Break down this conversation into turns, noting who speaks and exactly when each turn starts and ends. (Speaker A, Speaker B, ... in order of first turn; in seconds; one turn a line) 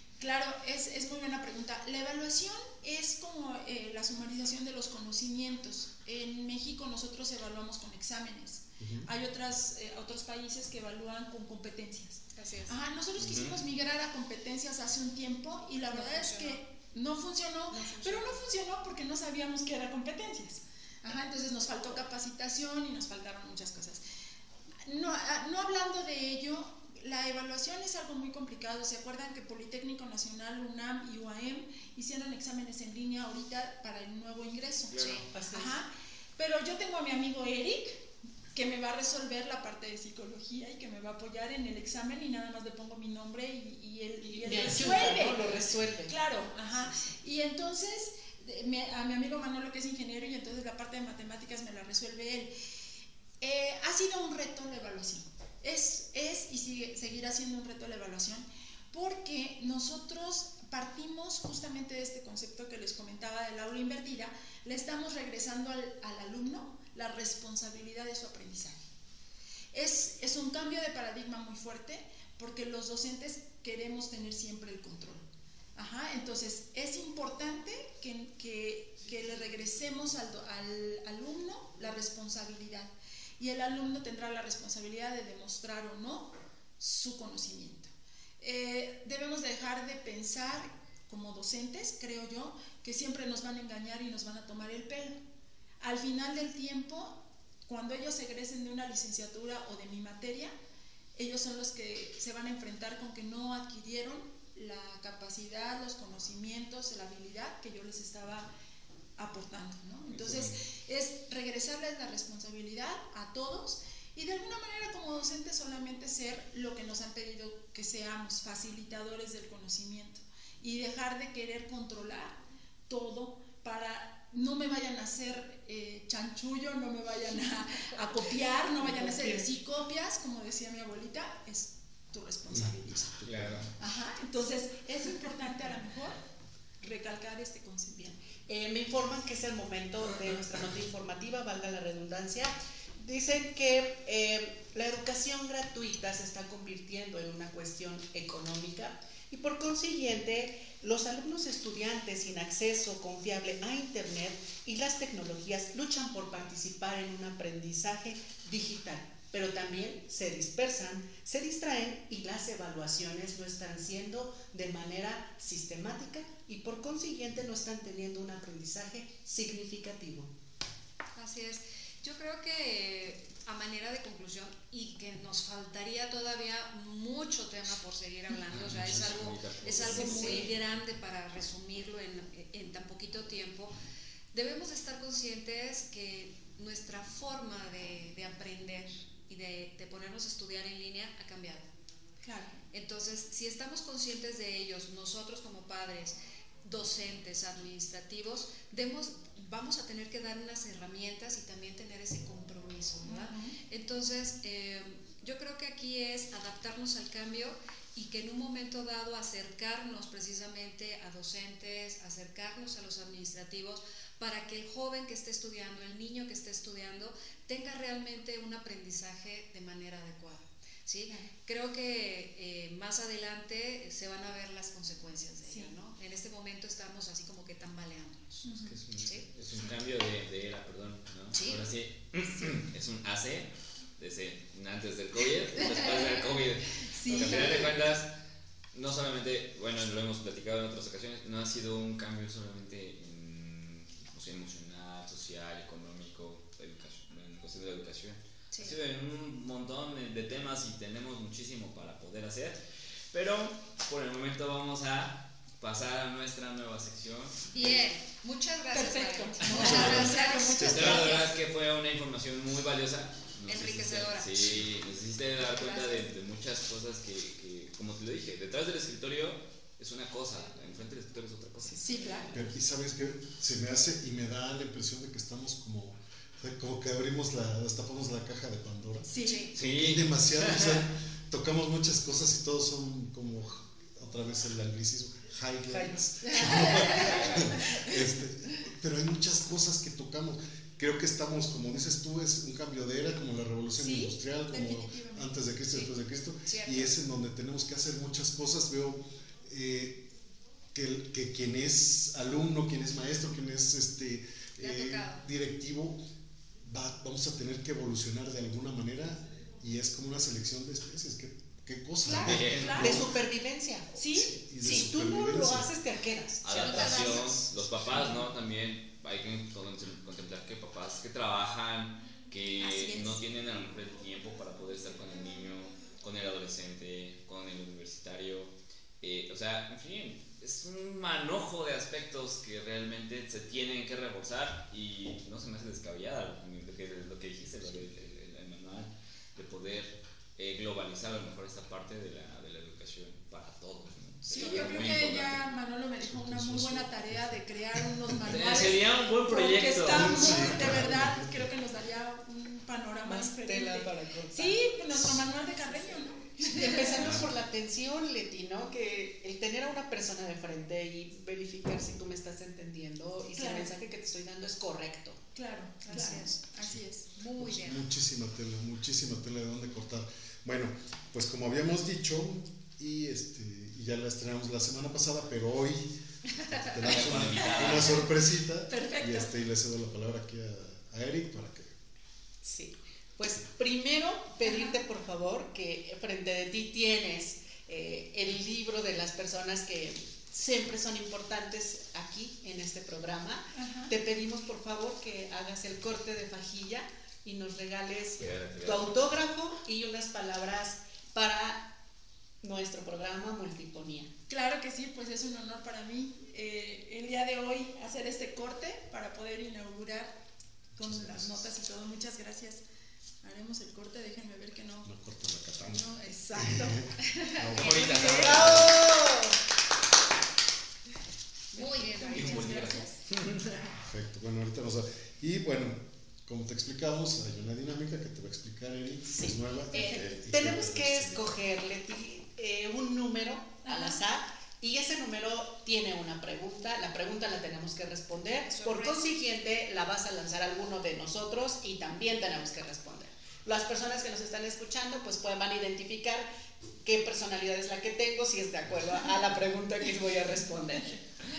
Speaker A: 0.2-24.0
Speaker B: 8.8-9.1
Speaker C: 12.3-12.8
Speaker D: 13.2-13.6
Speaker C: 15.9-16.6
Speaker C: 17.7-18.3
Speaker A: 24.8-45.5
Speaker D: 34.9-35.2
Speaker C: 35.0-35.2
Speaker E: 35.3-35.7
Speaker E: 44.2-46.1
Speaker A: 46.1-52.5
Speaker A: 53.4-68.8
Speaker A: 69.7-95.2
Speaker A: 95.8-97.2
Speaker A: 97.7-100.5
Speaker A: 101.1-108.5
Speaker A: 109.2-122.4
Speaker D: 110.1-110.6
Speaker A: 122.9-133.2
Speaker E: 128.8-129.4
Speaker B: 132.5-133.7
Speaker D: 133.2-133.7
Speaker A: 133.8-136.2
Speaker A: 136.8-138.2
Speaker E: 138.4-170.3
Speaker C: 171.2-183.7
Speaker D: 178.5-180.5
Speaker E: 179.9-180.5
Speaker C: 184.3-191.7
Speaker A: 192.2-192.6
Speaker C: 192.7-229.2
Speaker A: 203.0-203.5
Speaker A: 225.4-225.7
Speaker A: 228.4-228.8
Speaker D: 228.7-238.1
Speaker C: 231.3-231.6
Speaker A: 236.8-237.7
Speaker C: 237.1-237.7
Speaker D: 238.7-252.6
Speaker C: 248.5-248.8
Speaker D: 253.1-257.8
Speaker C: 257.5-261.3
Speaker A: 258.7-261.3
Speaker D: 259.5-272.1
Speaker C: 263.5-264.6
Speaker C: 265.5-266.1
Speaker A: 271.8-272.4
Speaker B: 272.3-300.1
Speaker A: 279.1-279.5
Speaker C: 279.2-279.5
Speaker D: 279.5-280.8
Speaker A: 286.2-288.0
Speaker A: 293.8-295.4
Speaker C: 296.4-296.9
Speaker B: 300.7-306.0
Speaker C: 304.6-305.2
Speaker B: 306.6-313.1
Speaker A: 312.0-313.0
Speaker D: 312.1-312.9
Speaker E: 312.7-313.9
Speaker A: 313.9-314.3
Speaker B: 314.1-315.7
Speaker E: 314.6-317.2
Speaker D: 316.4-345.5
Speaker C: 316.6-317.4
Speaker A: 322.6-323.2
Speaker A: 344.3-357.2
Speaker B: 346.1-347.4
Speaker D: 348.3-350.8
Speaker B: 349.9-351.4
Speaker E: 353.1-365.2
Speaker A: 363.3-363.7
Speaker A: 365.3-367.1
Speaker C: 365.9-366.5
Speaker C: 367.1-367.8
Speaker B: 367.4-381.7
Speaker D: 376.8-378.1
Speaker A: 378.7-379.3
Speaker E: 382.4-401.7
Speaker A: 384.4-384.8
Speaker A: 393.5-393.9
Speaker D: 398.2-398.9
Speaker E: 402.4-404.1
Speaker A: 404.3-410.1
Speaker A: 410.8-412.6
Speaker B: 410.8-411.4
Speaker A: 413.2-414.9
Speaker B: 414.8-418.7
Speaker A: 415.6-418.6
Speaker D: 417.5-418.9
Speaker E: 418.0-419.4
Speaker C: 421.5-422.8
Speaker A: 421.5-422.9
Speaker D: 422.1-423.7
Speaker B: 423.7-431.4
Speaker E: 429.1-446.2
Speaker A: 433.6-434.0
Speaker C: 438.4-439.0
Speaker E: 446.8-451.0